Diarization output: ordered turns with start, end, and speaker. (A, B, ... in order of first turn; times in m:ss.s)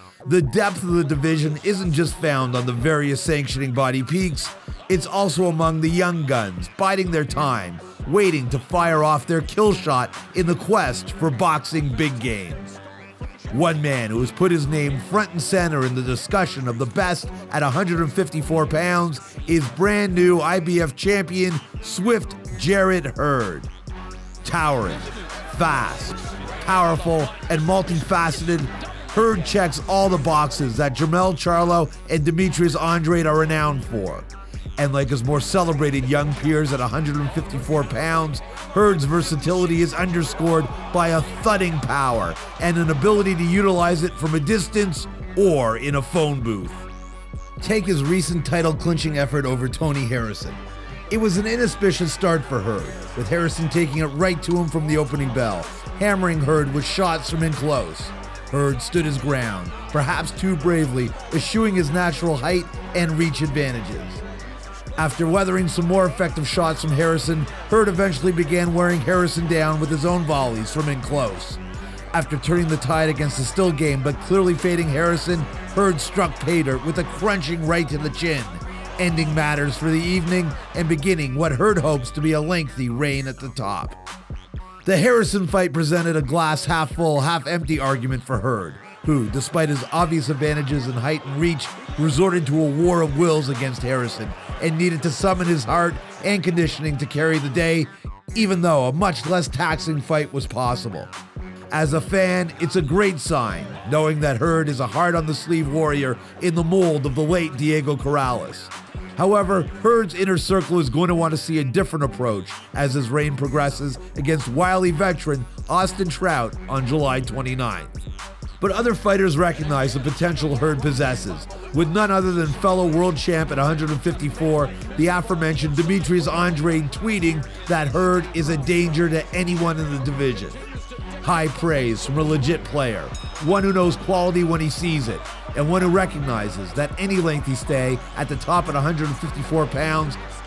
0:00.2-0:12.7 A
0:13.5-0:23.7 A
0:24.4-0:46.9 A
0:47.6-1:04.2 A
1:05.0-1:11.6 A
1:12.1-1:24.0 A
1:24.8-1:41.1 A
1:41.7-1:58.0 A
1:58.6-2:10.6 A
2:11.2-2:20.2 A